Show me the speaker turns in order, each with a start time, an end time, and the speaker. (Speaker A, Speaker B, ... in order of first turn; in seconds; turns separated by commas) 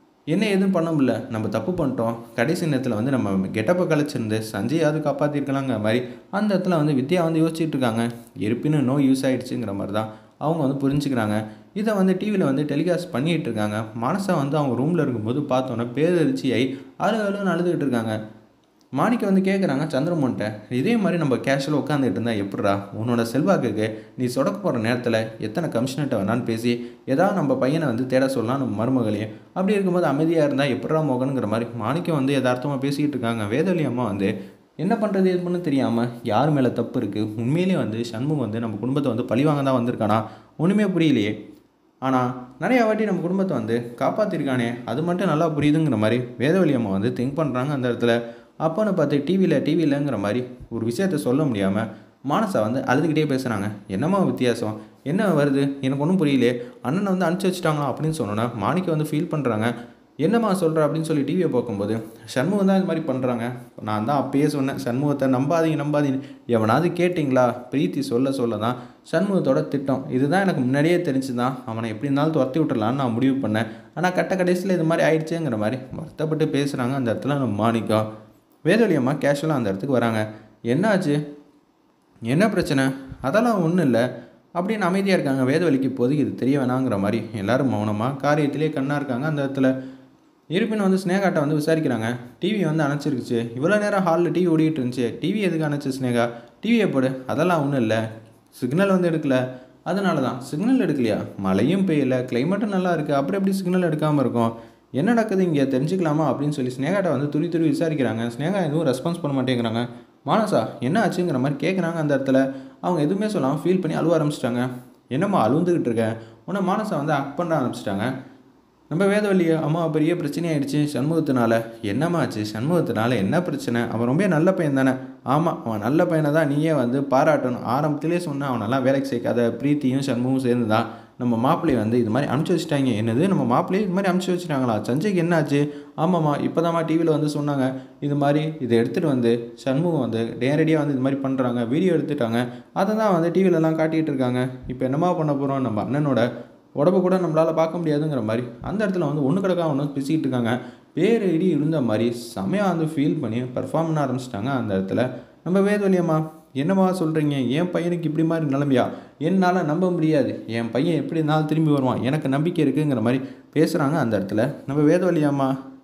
Speaker A: 0.3-18.2, Speaker A: 19.0-41.3, Speaker A: 42.0-78.0, Speaker A: 78.7-81.2, Speaker A: 82.3-84.0, Speaker A: 84.6-89.7, Speaker A: 90.5-98.0, Speaker A: 98.5-118.1, Speaker A: 118.9-146.2, Speaker A: 146.8-165.5